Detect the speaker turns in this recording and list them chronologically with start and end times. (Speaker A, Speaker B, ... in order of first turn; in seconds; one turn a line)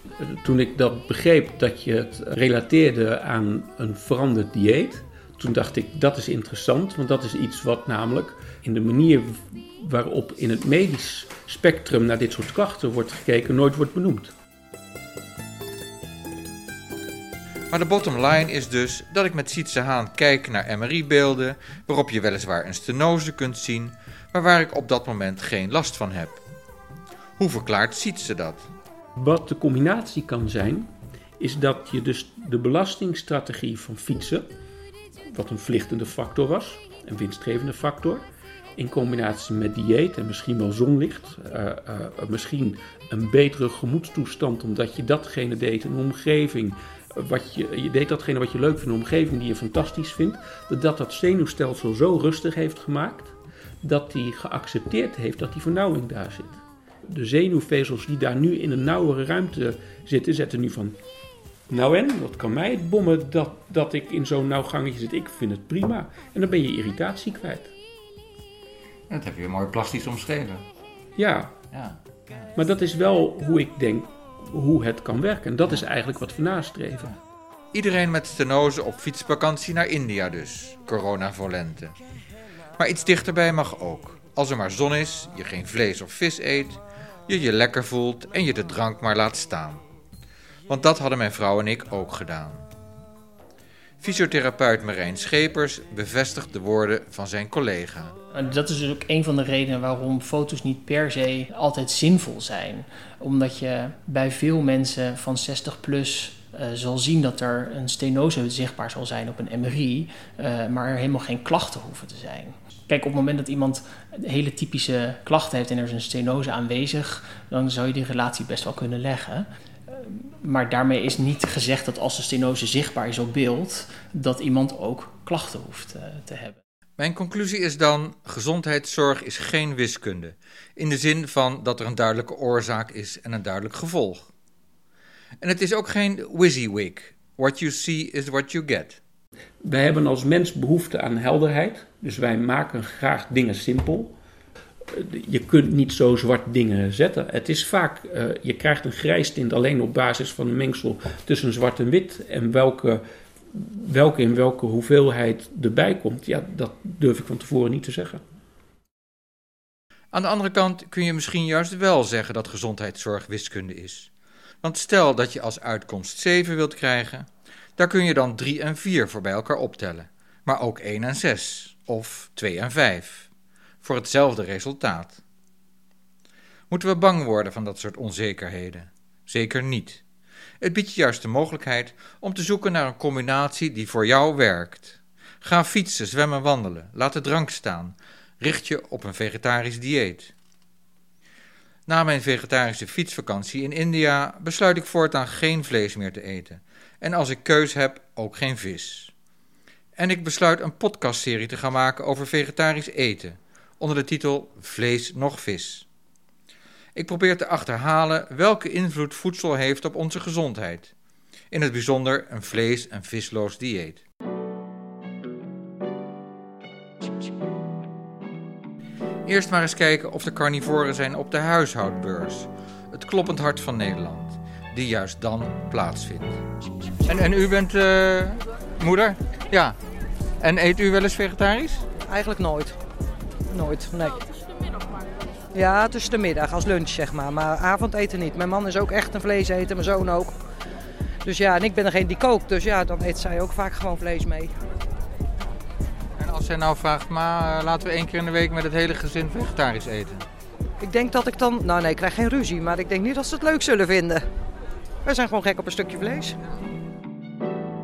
Speaker A: 0.2-14.3
Speaker B: 17.7-26.4
Speaker B: 27.4-28.7
Speaker A: 29.1-34.5
Speaker A: 35.3-38.2
Speaker A: 38.8-61.0
Speaker A: 61.7-67.7
Speaker B: 69.1-70.6
Speaker A: 71.2-71.5
Speaker B: 71.7-72.5
Speaker A: 72.5-77.1
Speaker B: 77.7-81.9
Speaker B: 82.8-89.8
Speaker B: 90.7-92.6
Speaker B: 94.0-98.2
Speaker C: 98.3-126.6
Speaker B: 127.0-134.3
Speaker B: 135.4-139.0
Speaker A: 139.6-144.1
Speaker A: 144.9-158.2
Speaker B: 160.1-164.1
Speaker B: 164.6-173.3
Speaker B: 173.8-175.2
Speaker B: 176.7-180.0
Speaker B: 180.6-190.3
Speaker B: 191.9-199.1
Speaker B: 199.9-205.8
Speaker B: 206.9-210.9
Speaker B: 211.5-214.0
Speaker B: 219.2-226.4
Speaker B: 227.1-229.8
Speaker B: 230.4-231.8
Speaker D: 232.1-232.8
Speaker D: 233.5-234.2
Speaker D: 235.5-240.3
Speaker D: 241.2-244.5
Speaker B: 246.2-250.2
Speaker D: 250.8-254.2
Speaker D: 255.0-256.4